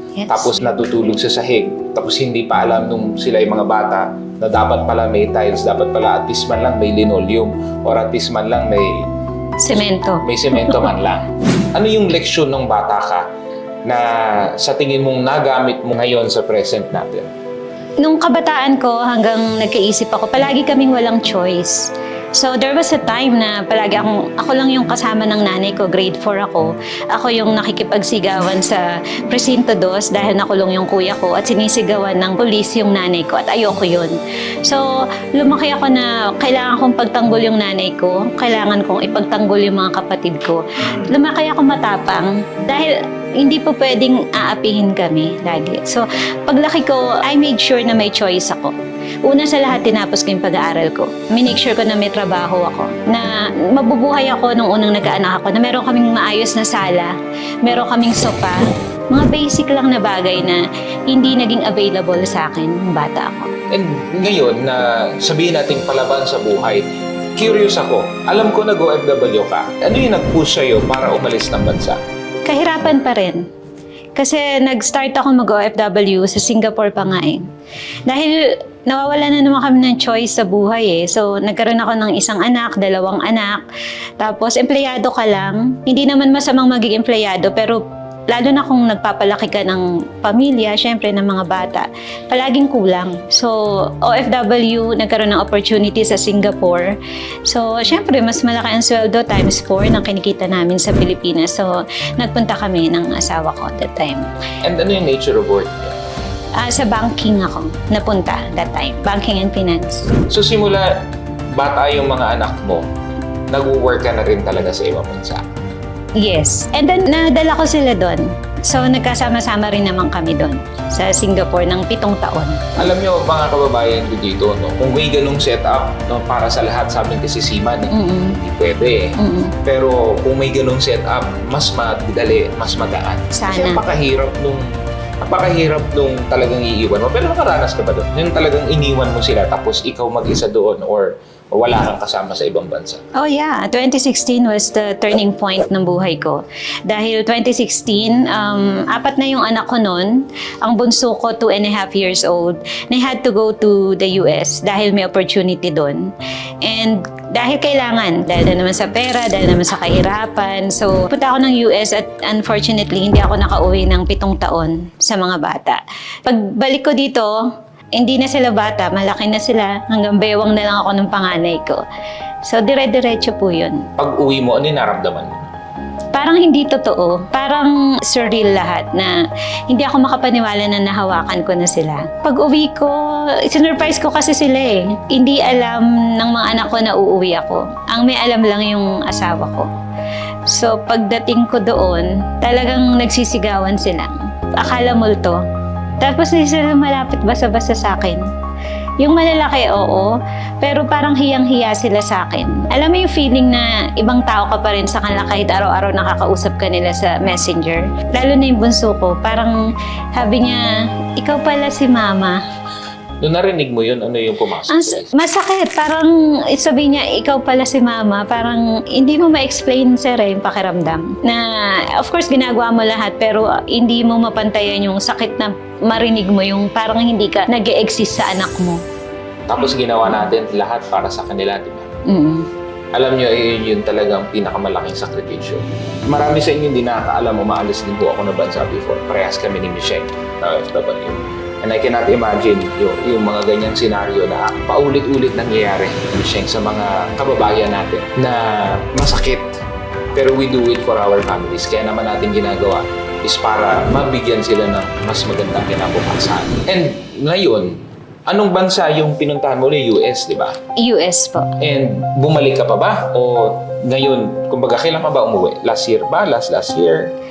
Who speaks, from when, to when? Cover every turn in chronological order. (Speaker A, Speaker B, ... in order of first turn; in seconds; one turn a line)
Speaker A: 0.2-0.6
Speaker B: 0.3-9.1
Speaker A: 9.6-10.8
Speaker B: 10.2-13.2
Speaker B: 13.9-17.3
Speaker A: 18.0-63.5
Speaker B: 63.7-72.0
Speaker A: 72.5-73.5
Speaker A: 74.2-77.5
Speaker A: 78.1-83.6
Speaker A: 84.2-97.0
Speaker A: 97.5-104.3
Speaker B: 104.6-105.9
Speaker A: 106.6-110.1
Speaker B: 110.3-110.9
Speaker B: 111.5-112.8
Speaker B: 113.5-115.5
Speaker A: 116.2-122.7
Speaker B: 122.8-134.7
Speaker A: 127.9-128.4
Speaker A: 129.2-129.6
Speaker A: 133.3-133.8
Speaker B: 135.2-143.0
Speaker A: 143.2-156.1
Speaker A: 156.6-171.8
Speaker A: 172.4-173.8
Speaker B: 174.0-175.4
Speaker A: 176.1-189.7
Speaker A: 190.5-195.4
Speaker A: 196.0-198.2
Speaker A: 199.0-209.6
Speaker A: 210.2-212.4
Speaker B: 213.2-215.1
Speaker A: 214.7-228.8
Speaker B: 229.5-231.9
Speaker A: 232.1-232.5
Speaker B: 232.9-249.6
Speaker B: 250.2-260.6
Speaker A: 260.8-261.5
Speaker B: 261.6-267.1